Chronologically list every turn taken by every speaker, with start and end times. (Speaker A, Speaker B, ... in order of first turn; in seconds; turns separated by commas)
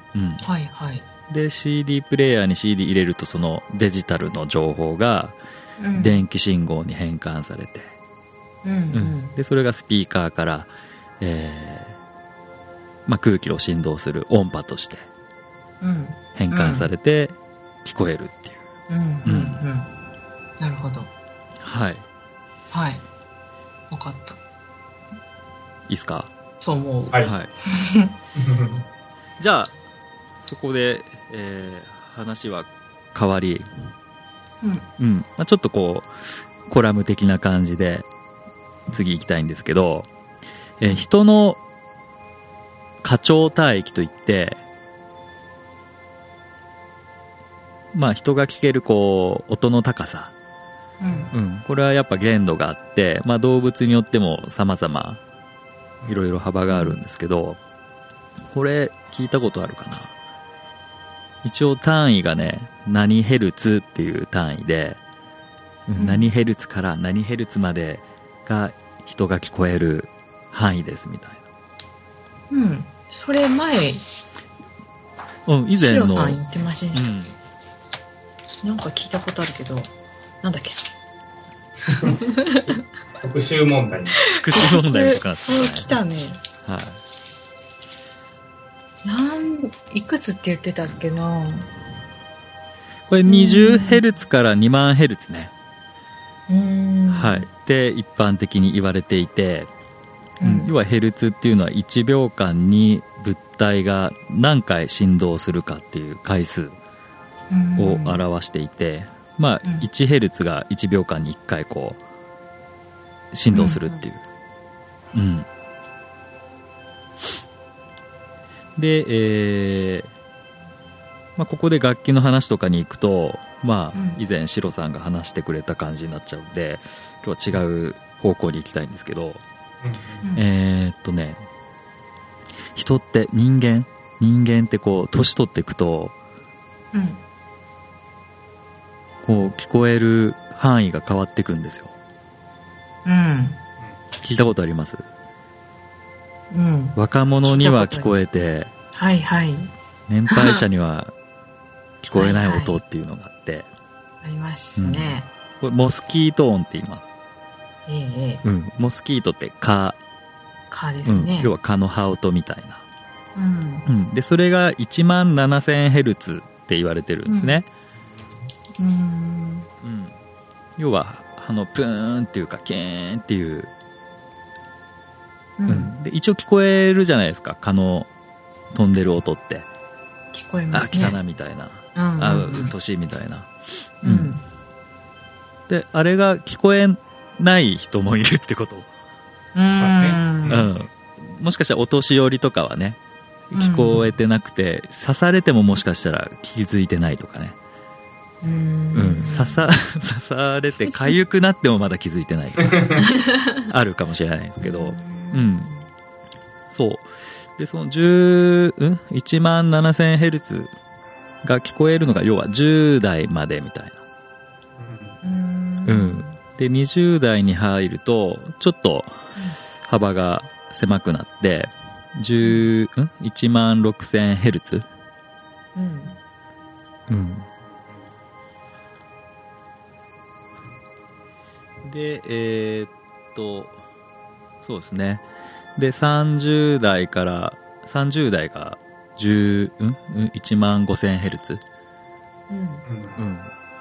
Speaker A: 0.1-0.4, Speaker B: 0.4-1.1, Speaker A: 1.3-5.3, Speaker B: 5.8-6.2, Speaker A: 5.9-7.9, Speaker B: 8.6-9.3, Speaker A: 8.9-12.0, Speaker A: 13.1-15.1, Speaker B: 15.8-16.9, Speaker A: 16.3-18.6, Speaker B: 18.9-19.9, Speaker A: 19.2-19.6, Speaker B: 20.6-21.1, Speaker A: 21.6-22.0, Speaker B: 22.7-23.0, Speaker B: 23.9-24.4, Speaker A: 25.9-26.3, Speaker B: 26.6-28.1, Speaker A: 27.2-27.5, Speaker C: 28.4-28.8, Speaker A: 29.4-29.7, Speaker A: 30.4-33.7, Speaker B: 34.6-34.9, Speaker A: 35.0-36.1, Speaker A: 36.6-38.1, Speaker A: 38.9-40.1, Speaker A: 40.8-41.6, Speaker A: 43.0-44.6, Speaker A: 47.9-50.3, Speaker B: 51.0-51.3, Speaker A: 51.3-55.2, Speaker A: 56.1-57.6, Speaker B: 56.7-57.0, Speaker A: 58.5-60.1, Speaker A: 61.4-65.0, Speaker A: 65.9-71.4, Speaker B: 66.0-66.3, Speaker B: 72.5-74.0, Speaker A: 75.5-76.4, Speaker B: 75.7-77.1, Speaker A: 76.9-77.4, Speaker B: 78.6-80.8, Speaker B: 82.0-82.8, Speaker C: 83.2-84.2, Speaker B: 84.2-86.4, Speaker A: 84.3-85.9, Speaker A: 86.6-87.0, Speaker B: 89.0-91.7, Speaker A: 93.1-95.5, Speaker B: 93.2-94.0, Speaker B: 96.5-97.5, Speaker A: 97.1-99.7, Speaker B: 100.4-100.7, Speaker A: 100.4-106.8, Speaker B: 107.5-108.2, Speaker A: 107.8-112.0, Speaker A: 113.3-114.2, Speaker B: 113.5-114.0, Speaker A: 115.1-115.5, Speaker A: 118.8-120.1, Speaker A: 121.4-129.4, Speaker B: 123.9-124.2, Speaker C: 129.8-130.2, Speaker A: 130.3-131.4, Speaker A: 132.7-136.1, Speaker B: 136.9-137.2, Speaker A: 139.2-141.9, Speaker B: 143.0-143.6, Speaker A: 144.2-145.0, Speaker B: 146.5-148.2, Speaker A: 146.9-148.7, Speaker B: 148.9-149.7, Speaker A: 150.1-151.1, Speaker B: 150.3-150.6, Speaker A: 152.0-153.7, Speaker B: 152.1-152.8, Speaker B: 154.2-155.3, Speaker A: 154.8-157.0, Speaker B: 157.9-158.4, Speaker A: 158.4-160.0, Speaker B: 160.7-161.5, Speaker A: 161.0-162.8, Speaker B: 163.3-163.9, Speaker A: 163.8-167.7, Speaker B: 167.2-167.6, Speaker B: 168.8-169.7, Speaker A: 169.8-170.1, Speaker A: 170.8-173.7, Speaker B: 175.6-176.0, Speaker A: 175.7-178.1, Speaker A: 178.7-179.7, Speaker B: 180.3-181.2, Speaker A: 180.7-183.5, Speaker B: 181.9-182.7, Speaker A: 184.0-184.3, Speaker B: 184.0-184.4, Speaker A: 185.7-188.9, Speaker B: 189.5-190.7, Speaker C: 189.8-190.7, Speaker A: 190.5-193.0, Speaker A: 193.5-197.6, Speaker B: 193.5-194.0, Speaker B: 198.4-199.7, Speaker A: 198.9-203.0, Speaker C: 202.7-202.9, Speaker B: 203.0-203.6, Speaker A: 203.7-205.7, Speaker B: 204.6-205.9, Speaker A: 206.7-210.7, Speaker A: 211.4-214.0, Speaker C: 214.8-215.2, Speaker B: 215.2-216.4, Speaker A: 215.8-219.2, Speaker A: 219.8-224.9, Speaker B: 222.4-222.7, Speaker B: 225.7-226.2, Speaker A: 227.1-227.5, Speaker A: 231.8-233.8, Speaker A: 234.6-235.2, Speaker A: 235.8-241.6, Speaker B: 242.5-242.8, Speaker C: 242.8-243.2, Speaker A: 243.2-243.5